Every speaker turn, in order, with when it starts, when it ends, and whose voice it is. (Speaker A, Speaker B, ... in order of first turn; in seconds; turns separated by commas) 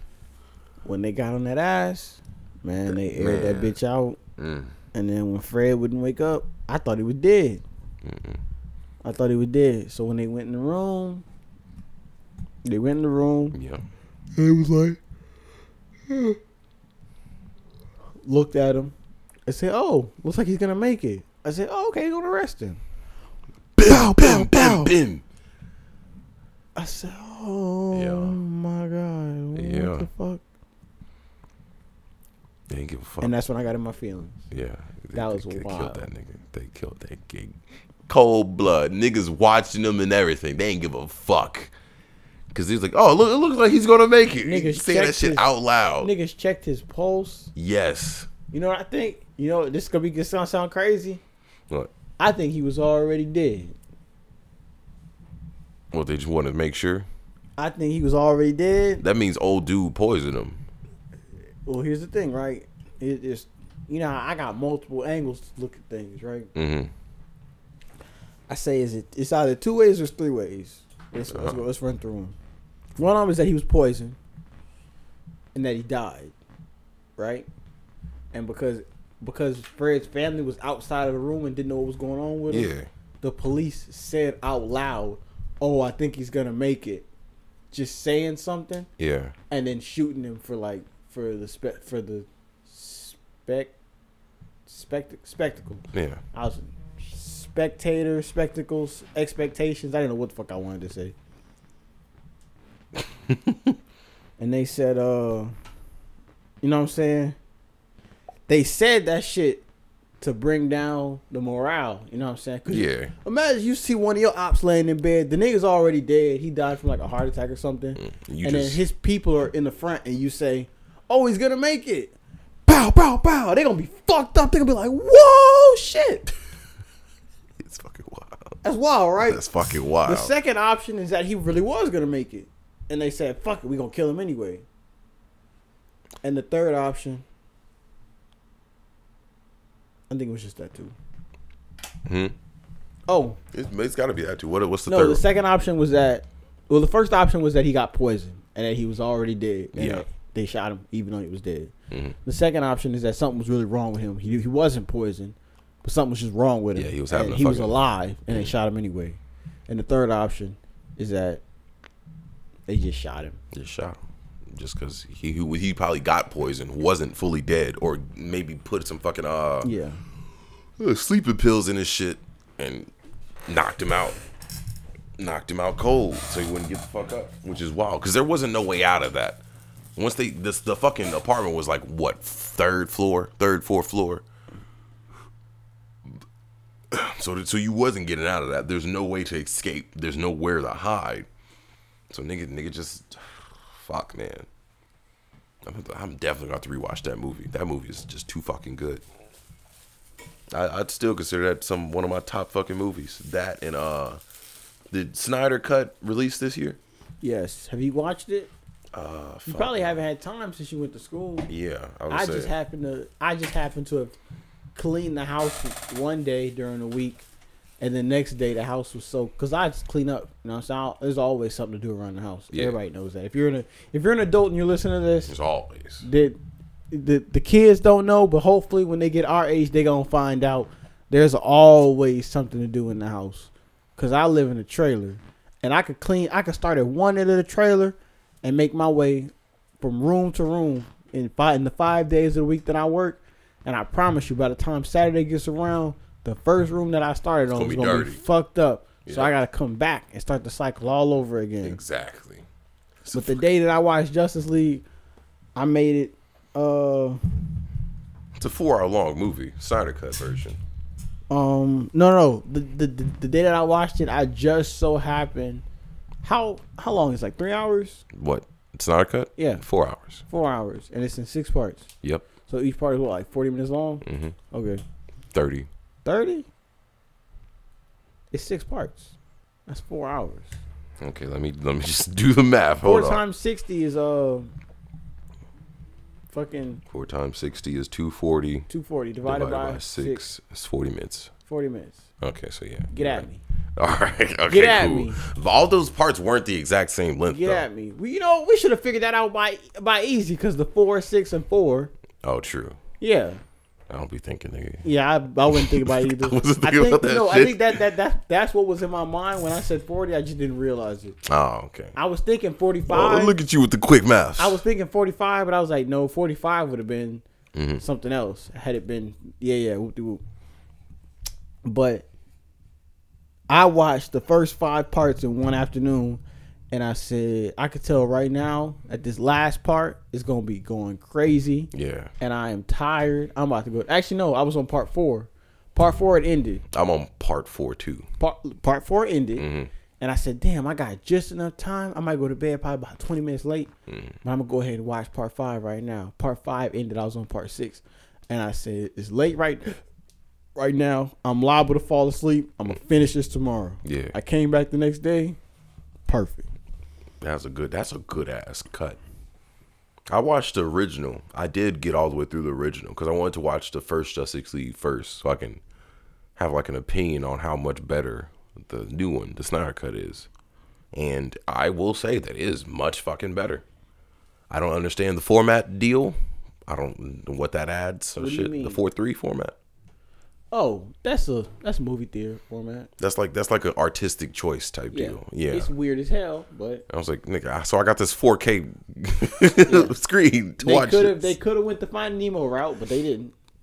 Speaker A: 0.8-4.2, Speaker B: 2.9-3.7, Speaker B: 4.4-4.8, Speaker A: 4.9-7.6, Speaker B: 8.0-8.4, Speaker A: 9.0-11.2, Speaker A: 12.6-13.6, Speaker B: 13.5-13.8, Speaker A: 14.4-15.0, Speaker A: 16.1-16.4, Speaker A: 18.2-18.9, Speaker A: 19.5-22.8, Speaker B: 23.8-25.2, Speaker A: 23.8-24.9, Speaker A: 26.8-30.4, Speaker B: 27.9-28.4, Speaker B: 29.5-30.1, Speaker B: 32.7-33.3, Speaker A: 33.2-34.4, Speaker B: 34.5-41.7, Speaker A: 35.1-36.1, Speaker B: 42.5-46.1, Speaker A: 44.4-45.5, Speaker A: 46.0-47.5, Speaker B: 47.5-48.3, Speaker A: 48.5-51.2, Speaker A: 52.2-53.8, Speaker B: 55.9-57.1, Speaker A: 57.6-59.0, Speaker B: 59.0-60.6, Speaker A: 61.7-66.5, Speaker B: 66.5-66.9, Speaker A: 68.5-72.4, Speaker B: 71.3-71.6, Speaker A: 73.0-74.2, Speaker A: 75.5-76.3, Speaker A: 77.2-77.5, Speaker A: 78.3-87.1, Speaker B: 82.5-82.9, Speaker A: 87.7-88.9, Speaker B: 89.0-89.3, Speaker A: 89.5-93.7, Speaker A: 94.7-101.2, Speaker B: 95.9-96.2, Speaker B: 103.0-103.8, Speaker A: 104.4-105.5, Speaker A: 106.6-107.4, Speaker A: 108.5-109.6, Speaker A: 110.2-122.1, Speaker B: 112.7-113.1, Speaker B: 118.0-118.8, Speaker A: 122.7-126.3, Speaker B: 127.6-128.6, Speaker A: 128.6-129.4, Speaker B: 129.2-130.3, Speaker A: 130.0-134.7, Speaker A: 136.2-137.2, Speaker A: 140.1-140.9, Speaker B: 142.1-142.3, Speaker A: 143.1-143.4, Speaker B: 143.5-145.2, Speaker A: 144.9-151.7, Speaker B: 149.7-150.1, Speaker B: 151.9-152.2, Speaker A: 152.2-161.4, Speaker B: 156.8-158.5, Speaker A: 162.7-163.4, Speaker B: 163.5-169.7, Speaker A: 169.6-170.0, Speaker B: 170.8-172.9, Speaker B: 173.5-174.2, Speaker B: 175.2-179.4, Speaker B: 180.0-184.2, Speaker B: 186.9-191.3, Speaker B: 192.1-194.5, Speaker B: 195.6-199.0, Speaker B: 200.5-204.2, Speaker B: 204.9-206.8, Speaker A: 207.2-208.5, Speaker B: 208.9-210.0, Speaker A: 209.5-211.5, Speaker B: 211.5-212.5, Speaker A: 212.1-214.1, Speaker A: 214.8-217.2, Speaker A: 217.8-225.3, Speaker B: 222.5-222.8, Speaker B: 225.3-226.1, Speaker A: 226.0-226.4, Speaker A: 226.9-251.8, Speaker B: 247.5-248.2, Speaker B: 249.1-249.3, Speaker B: 251.6-252.4, Speaker B: 253.1-253.4, Speaker A: 253.1-254.8, Speaker A: 255.6-257.2, Speaker B: 258.4-260.6, Speaker A: 261.3-265.6, Speaker A: 266.2-268.0, Speaker B: 268.1-270.2, Speaker A: 269.4-269.6, Speaker A: 270.3-271.9, Speaker A: 272.5-274.8, Speaker B: 274.0-274.4, Speaker B: 275.3-275.7, Speaker A: 276.1-276.5, Speaker A: 278.3-279.1, Speaker A: 279.7-280.6, Speaker B: 281.0-283.2, Speaker A: 282.8-284.5, Speaker A: 286.3-286.8, Speaker B: 286.9-288.7, Speaker A: 288.7-290.2, Speaker B: 289.2-291.3, Speaker A: 291.5-292.1, Speaker B: 292.2-293.3, Speaker A: 292.9-293.4, Speaker B: 293.8-297.7, Speaker A: 294.5-295.2, Speaker A: 297.3-301.9, Speaker B: 302.2-302.8, Speaker A: 303.0-303.4, Speaker B: 303.9-304.9, Speaker A: 304.8-311.2, Speaker B: 305.5-307.8, Speaker B: 311.2-311.9, Speaker A: 312.0-313.4, Speaker B: 312.9-314.6, Speaker A: 314.4-317.2, Speaker B: 317.5-317.8, Speaker A: 317.8-320.2, Speaker A: 321.6-322.1, Speaker A: 323.5-336.6, Speaker B: 331.7-332.1, Speaker B: 336.7-338.1, Speaker A: 338.2-339.5, Speaker B: 339.4-339.7, Speaker A: 340.0-343.7, Speaker B: 343.9-344.2, Speaker A: 344.2-349.8, Speaker A: 350.6-355.4, Speaker B: 353.9-354.1, Speaker A: 356.1-356.5, Speaker B: 357.2-359.0, Speaker B: 360.1-365.6, Speaker B: 366.4-370.3, Speaker B: 370.9-373.6, Speaker B: 374.5-379.5, Speaker A: 378.2-378.8, Speaker A: 380.5-382.9, Speaker B: 383.0-385.7, Speaker A: 384.9-386.9, Speaker B: 386.9-391.4, Speaker A: 389.6-389.9, Speaker A: 390.6-393.3